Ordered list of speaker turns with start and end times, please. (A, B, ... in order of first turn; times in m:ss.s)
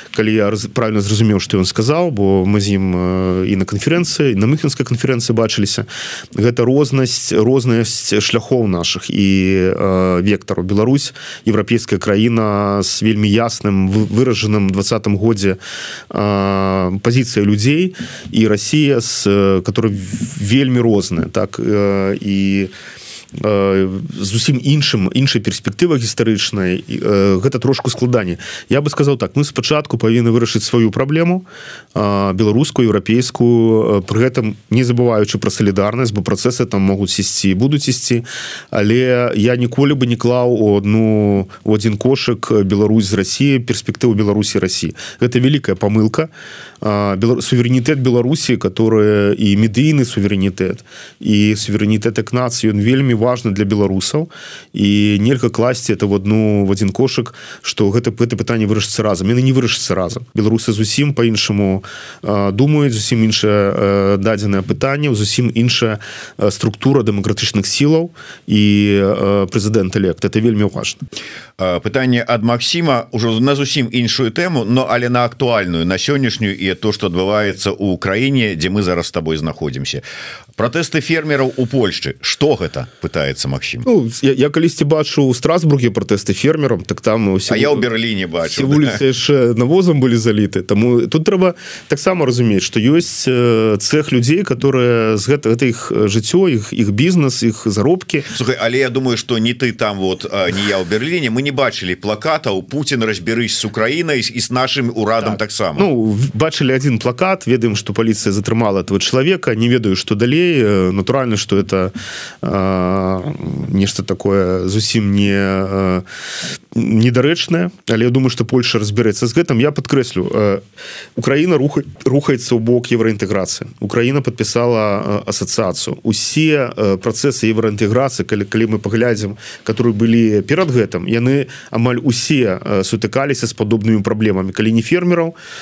0:00.1-0:15.6 A
0:16.1-0:22.7 A
0:23.4-0:46.3 A
0:46.8-1:11.0 A
1:11.6-1:20.0 B
1:20.6-1:23.8 B
1:23.8-1:27.8 A
1:27.5-1:29.0 B
1:28.5-1:38.3 A
1:38.3-1:45.9 B
1:45.8-1:56.0 A
1:56.7-2:00.6 A
2:01.2-2:15.4 A